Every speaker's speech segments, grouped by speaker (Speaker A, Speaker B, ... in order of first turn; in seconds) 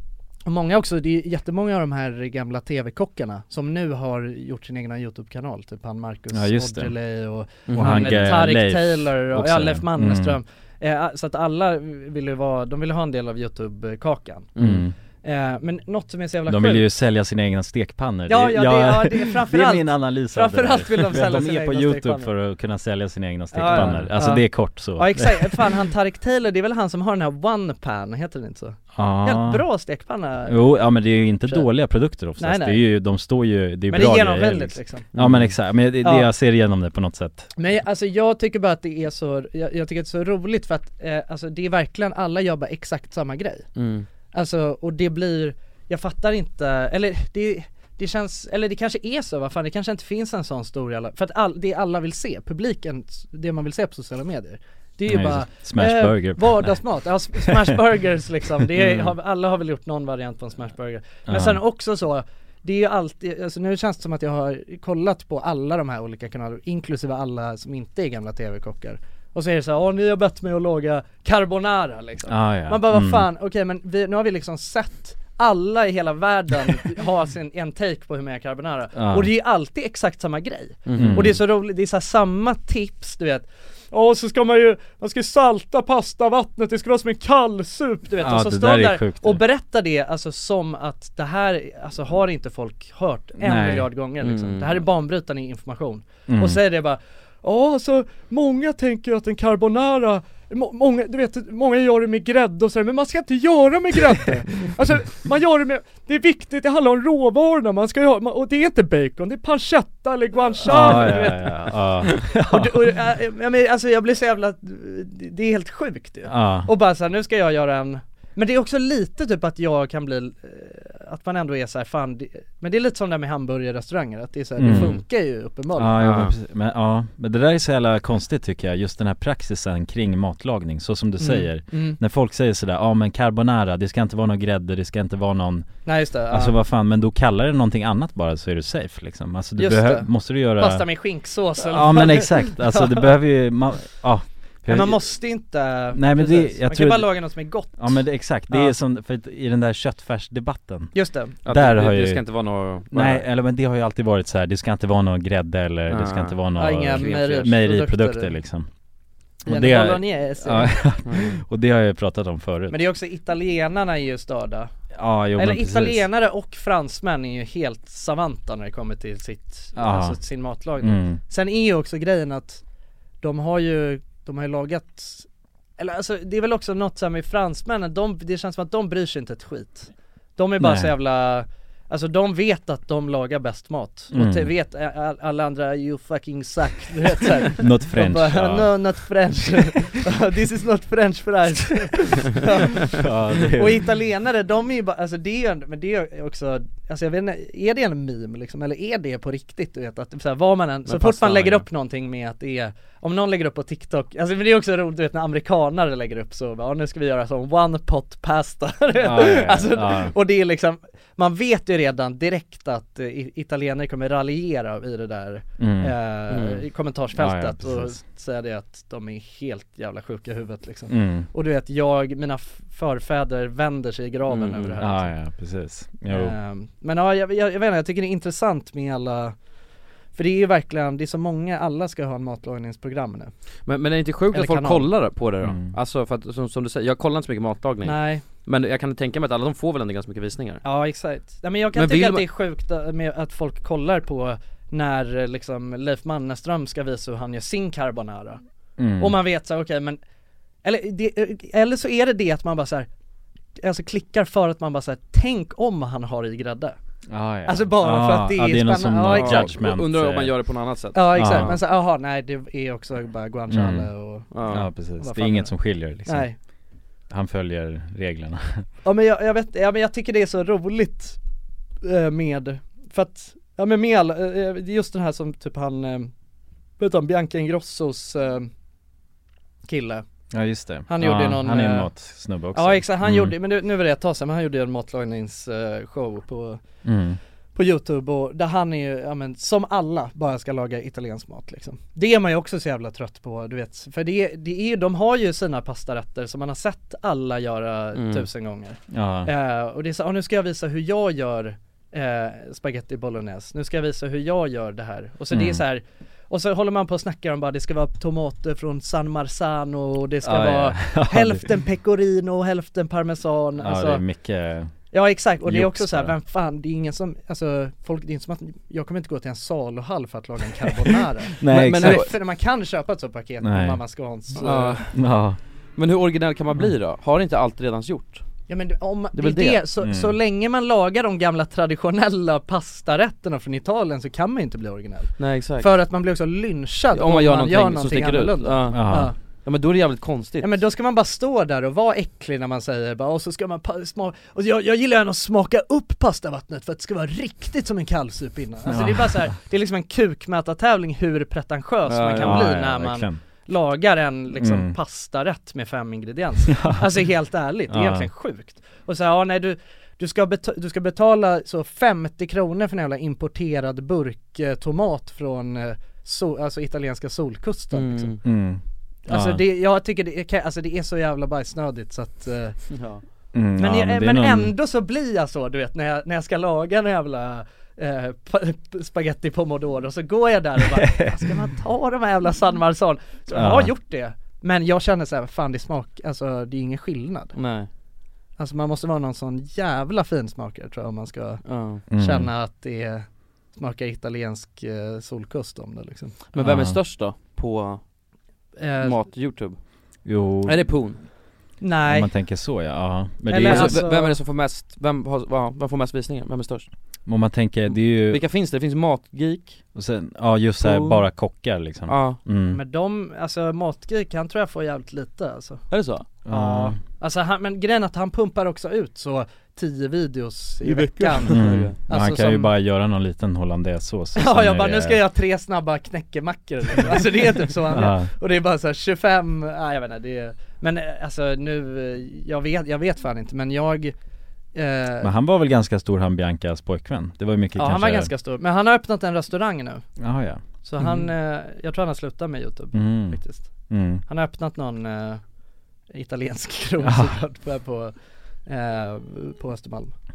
Speaker A: 0.5-14.6, 15.2-16.9, 18.3-22.3, 23.5-31.7, 32.4-32.8, 33.9-35.1, 36.0-36.3, 37.6-43.7, 44.3-126.0, 131.2-132.0, 135.8-136.6, 139.6-143.1, 144.7-148.8, 150.9-151.4, 156.6-158.3, 159.5-160.8, 162.7-164.7, 165.4-172.6, 173.2-175.3, 175.8-225.1, 226.1-229.3, 230.2-233.3, 234.3-234.9, 237.8-238.2, 240.6-248.4, 249.0-250.0, 250.6-252.9, 253.6-256.8, 257.5-259.6, 260.9-266.4, 268.8-271.2, 271.8-276.1, 276.8-278.5, 279.7-280.1, 280.9-281.9, 282.5-286.6, 287.6-314.1, 314.9-324.9, 328.5-339.1, 340.4-368.2, 369.1-372.6, 373.6-387.4, 388.4-396.2, 398.6-399.0, 401.6-402.1, 403.3-404.2, 412.5-415.6, 416.3-422.5, 424.2-433.9, 434.6-435.1, 437.6-439.9, 440.6-443.5, 444.1-445.2, 445.9-447.9, 448.5-449.9
Speaker B: 6.3-6.9, 7.7-10.4, 14.6-14.9, 16.5-25.8, 28.9-29.6, 30.5-37.5, 55.1-56.9, 57.5-57.8, 58.8-59.1, 61.3-61.6, 72.3-73.3, 79.0-79.3, 80.9-81.4, 88.2-89.4, 93.4-93.9, 96.3-96.6, 110.7-112.8, 116.3-116.7, 124.6-125.0, 125.8-135.7, 136.3-140.9, 141.6-145.1, 145.9-150.9, 151.5-152.2, 152.9-158.7, 159.4-162.8, 164.9-166.0, 169.8-170.2, 170.8-171.2, 180.6-180.9, 184.1-184.5, 187.6-188.9, 192.9-193.9, 209.0-210.1, 215.6-215.9, 217.2-218.0, 220.9-221.3, 224.8-226.4, 235.4-235.8, 248.8-249.2, 257.1-260.4, 261.1-261.6, 263.5-263.9, 264.4-266.3, 267.1-268.7, 280.3-283.4, 286.8-287.2, 298.9-299.3, 305.3-305.6, 310.2-311.5, 313.6-314.7, 315.4-316.1, 321.4-322.1, 323.4-323.8, 324.9-325.4, 329.8-330.2, 338.7-339.1, 348.7-349.4, 352.1-353.2, 354.4-354.8, 356.5-357.0, 357.7-358.1, 368.2-369.4, 373.3-374.5, 380.7-381.1, 383.3-383.7, 391.9-392.3, 396.4-396.8, 400.1-400.8, 401.8-403.8, 407.1-408.2, 409.8-412.6, 416.2-416.8, 421.3-425.0, 427.7-428.1, 435.0-438.1, 440.0-440.4, 442.7-444.1, 446.8-447.1
Speaker C: 7.7-8.3, 14.6-14.9, 23.7-24.1, 35.1-35.6, 43.8-44.1, 80.9-81.3, 94.2-94.8, 124.7-125.0, 126.0-126.3, 151.4-153.3, 155.9-156.4, 156.9-157.2, 161.1-161.4, 200.9-201.6, 216.3-216.6, 224.3-224.8, 233.7-240.6, 241.8-242.2, 259.1-261.6, 264.3-264.7, 297.9-298.3, 321.4-322.1, 324.4-324.8, 325.8-328.2, 329.1-329.6, 335.2-335.7, 336.9-340.6, 351.9-352.4, 367.7-368.2, 372.7-373.0, 387.4-387.7, 391.4-391.8, 396.3-397.8, 398.8-399.6, 400.4-401.0, 403.4-406.7, 407.7-409.6, 410.6-411.1, 411.9-412.2, 415.7-416.1, 420.6-421.8, 440.8-441.1